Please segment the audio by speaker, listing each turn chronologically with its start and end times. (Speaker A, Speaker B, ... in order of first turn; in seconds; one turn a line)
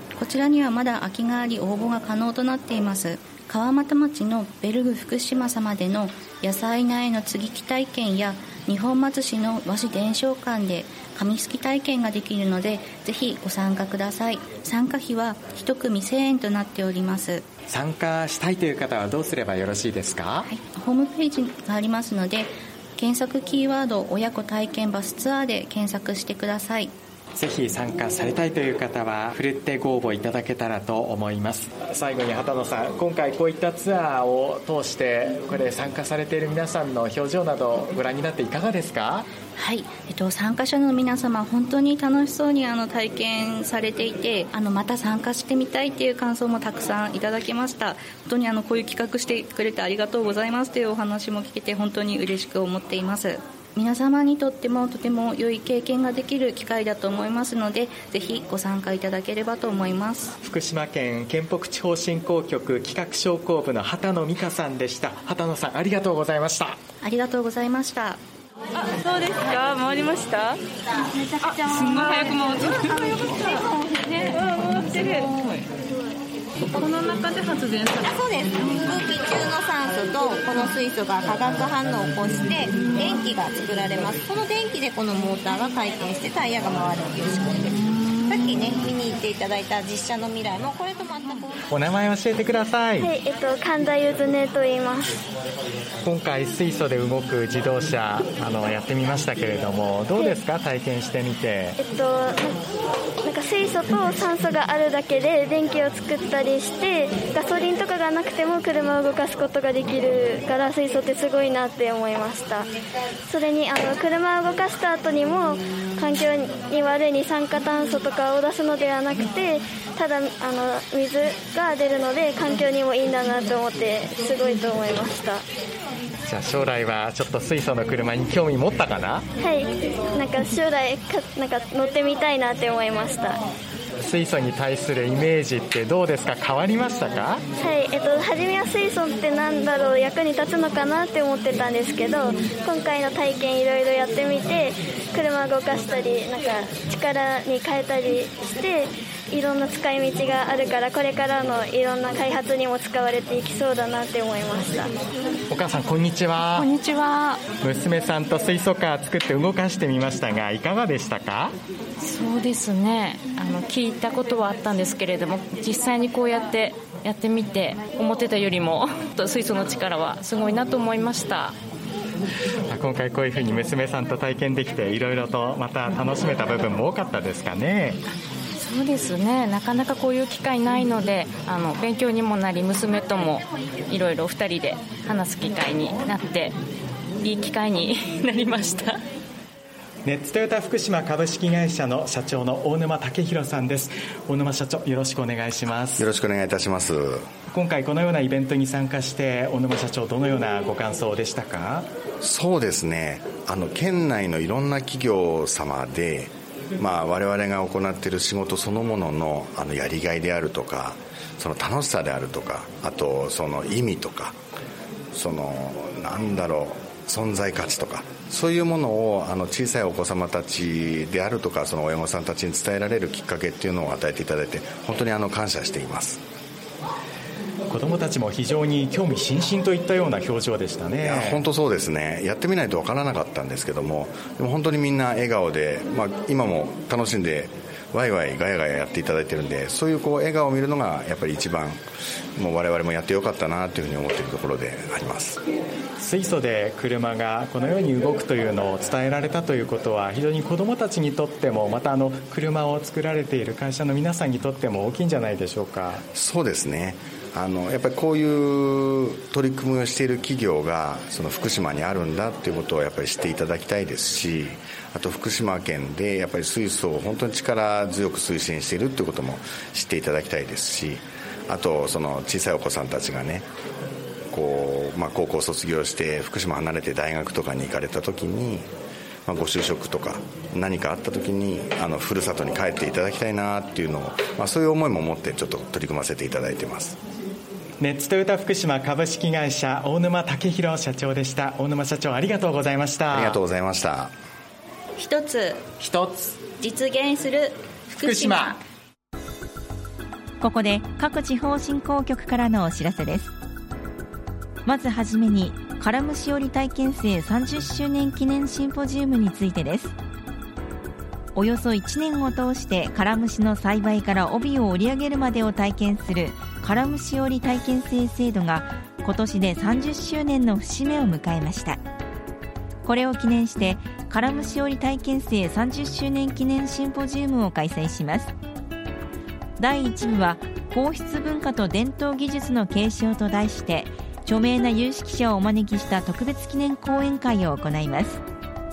Speaker A: 0.2-17.4
Speaker B: 17.7-20.5
Speaker A: 20.5-26.9
Speaker B: 27.3-39.3
Speaker A: 39.6-60.4
Speaker B: 60.4-66.8
Speaker A: 67.0-68.2
Speaker C: 68.9-70.5
Speaker C: 71.4-75.7
Speaker C: 76.8-78.1
Speaker D: 78.0-91.6
Speaker B: 91.7-93.1
Speaker E: 93.0-95.1
Speaker B: 96.0-101.8
Speaker E: 101.8-102.6
Speaker E: 103.2-112.7
Speaker E: 113.3-125.4
Speaker B: 126.2-129.3
Speaker E: 129.4-133.4
Speaker B: 134.0-137.4
Speaker E: 137.6-154.9
Speaker B: 155.5-156.7
Speaker C: 156.4-157.4
Speaker B: 157.6-161.5
Speaker C: 162.0-171.6
Speaker B: 172.7-178.0
Speaker C: 178.6-186.6
Speaker C: 187.2-189.0
Speaker B: 190.0-196.1
Speaker F: 196.0-197.3
Speaker B: 197.5-201.9
Speaker F: 202.2-214.4
Speaker F: 215.1-226.2
Speaker B: 227.7-231.4
Speaker F: 231.0-241.8
Speaker F: 242.4-245.4
Speaker B: 246.0-256.1
Speaker F: 256.1-273.5
Speaker F: 274.3-278.7
Speaker F: 279.3-287.0
Speaker B: 287.8-293.4
Speaker F: 293.1-294.1
Speaker A: 295.0-298.6
Speaker B: 295.8-296.4
Speaker B: 298.0-298.6
Speaker G: 300.4-303.3
Speaker G: 304.6-309.9
Speaker G: 311.4-321.8
Speaker G: 322.8-328.3
Speaker G: 329.6-338.2